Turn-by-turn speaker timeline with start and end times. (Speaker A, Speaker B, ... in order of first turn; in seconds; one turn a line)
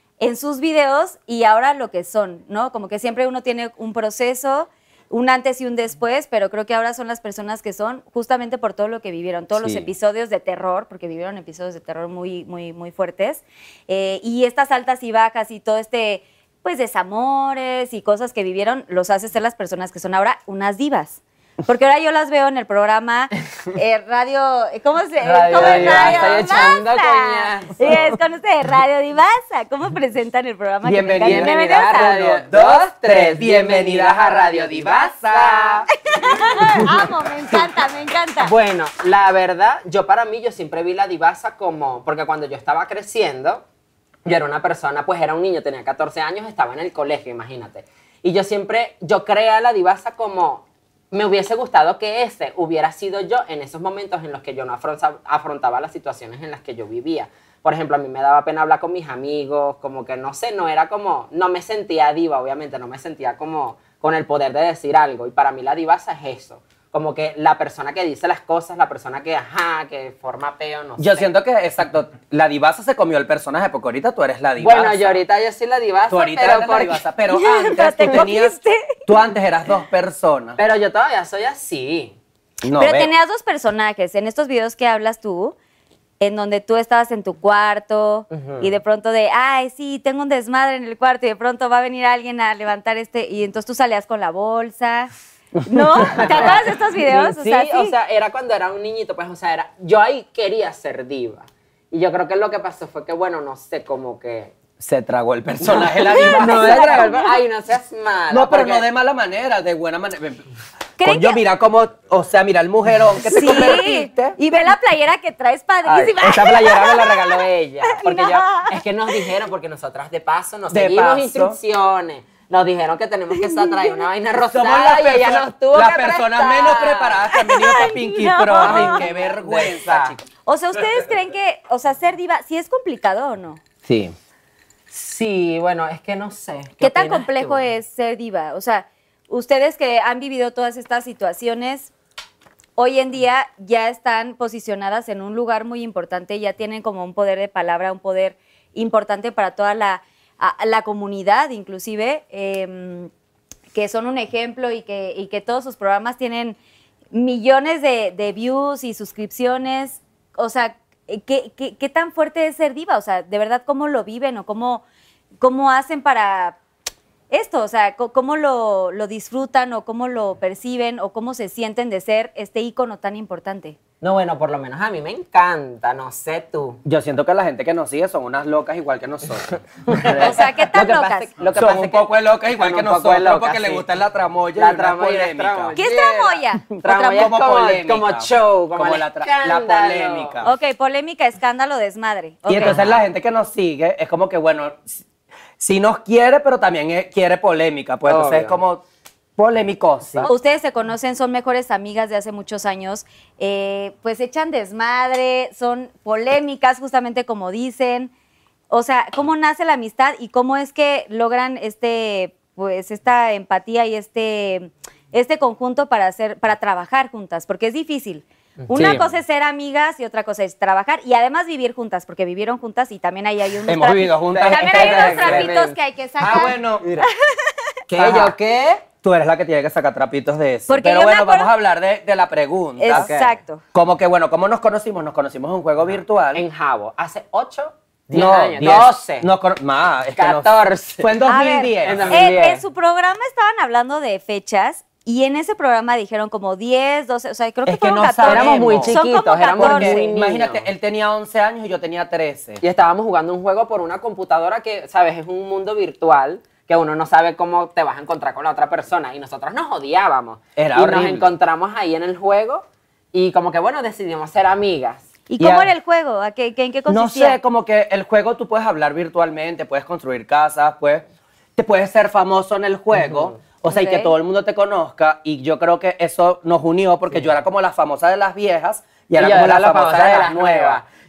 Speaker A: 0.2-32.1
Speaker B: 9.5-9.9
Speaker C: 25.2-28.1
Speaker B: 25.5-26.5
Speaker B: 30.8-35.9
Speaker C: 31.2-35.9
Speaker A: 36.1-38.5
Speaker C: 38.4-43.6
Speaker C: 44.2-71.3
Speaker B: 71.0-75.2
Speaker C: 74.6-77.0
Speaker B: 76.1-78.5
Speaker A: 77.3-79.0
Speaker B: 79.1-80.6
Speaker C: 80.6-82.2
Speaker B: 82.6-83.1
Speaker A: 82.8-85.5
Speaker A: 86.2-95.1
Speaker C: 88.3-88.8
Speaker B: 95.6-96.6
Speaker A: 95.7-97.9
Speaker C: 96.1-104.5
Speaker B: 104.8-107.1
Speaker C: 105.6-108.9
Speaker A: 106.0-107.4
Speaker B: 108.3-110.5
Speaker A: 111.0-111.4
Speaker B: 111.0-114.4
Speaker A: 113.2-117.2
Speaker C: 115.8-127.2
Speaker A: 117.9-119.2
Speaker B: 120.7-121.6
Speaker A: 123.3-124.0
Speaker B: 124.5-130.2
Speaker A: 127.3-129.1
Speaker C: 128.6-130.2
Speaker A: 130.4-133.6
Speaker B: 133.8-134.1
Speaker C: 134.9-137.6
Speaker A: 136.8-141.9
Speaker A: 142.8-153.1
Speaker A: 153.7-156.6
Speaker A: 157.1-164.8
Speaker A: 165.4-166.6
Speaker A: 167.3-173.8
Speaker C: 174.0-176.8
Speaker B: 176.8-180.4
Speaker C: 179.9-183.8
Speaker A: 180.2-181.3
Speaker B: 181.6-185.8
Speaker C: 184.5-190.4
Speaker A: 185.8-187.1
Speaker B: 186.8-190.5
Speaker A: 190.4-192.8
Speaker B: 192.4-195.0
Speaker C: 192.6-193.0
Speaker B: 195.6-198.8
Speaker C: 198.1-198.6
Speaker B: 199.4-200.3
Speaker A: 200.2-208.1
Speaker A: 208.7-226.6
Speaker C: 218.6-219.1
Speaker B: 223.7-225.5
Speaker C: 224.3-227.1
Speaker B: 226.2-226.9
Speaker C: 227.9-228.8
Speaker B: 227.9-228.3
Speaker B: 229.0-233.1
Speaker A: 230.7-231.5
Speaker A: 232.8-233.6
Speaker C: 232.9-233.3
Speaker B: 233.7-236.4
Speaker C: 235.9-239.3
Speaker B: 238.1-242.3
Speaker C: 240.1-241.1
Speaker A: 241.3-250.1
Speaker C: 241.8-242.6
Speaker B: 247.7-249.0
Speaker C: 248.2-250.7
Speaker B: 249.5-252.6
Speaker C: 252.6-265.1
Speaker B: 260.6-261.3
Speaker A: 265.3-267.4
Speaker B: 265.4-265.7
Speaker B: 266.9-271.0
Speaker B: 271.6-280.8
Speaker C: 272.9-273.4
Speaker A: 273.7-274.1
Speaker C: 279.2-280.9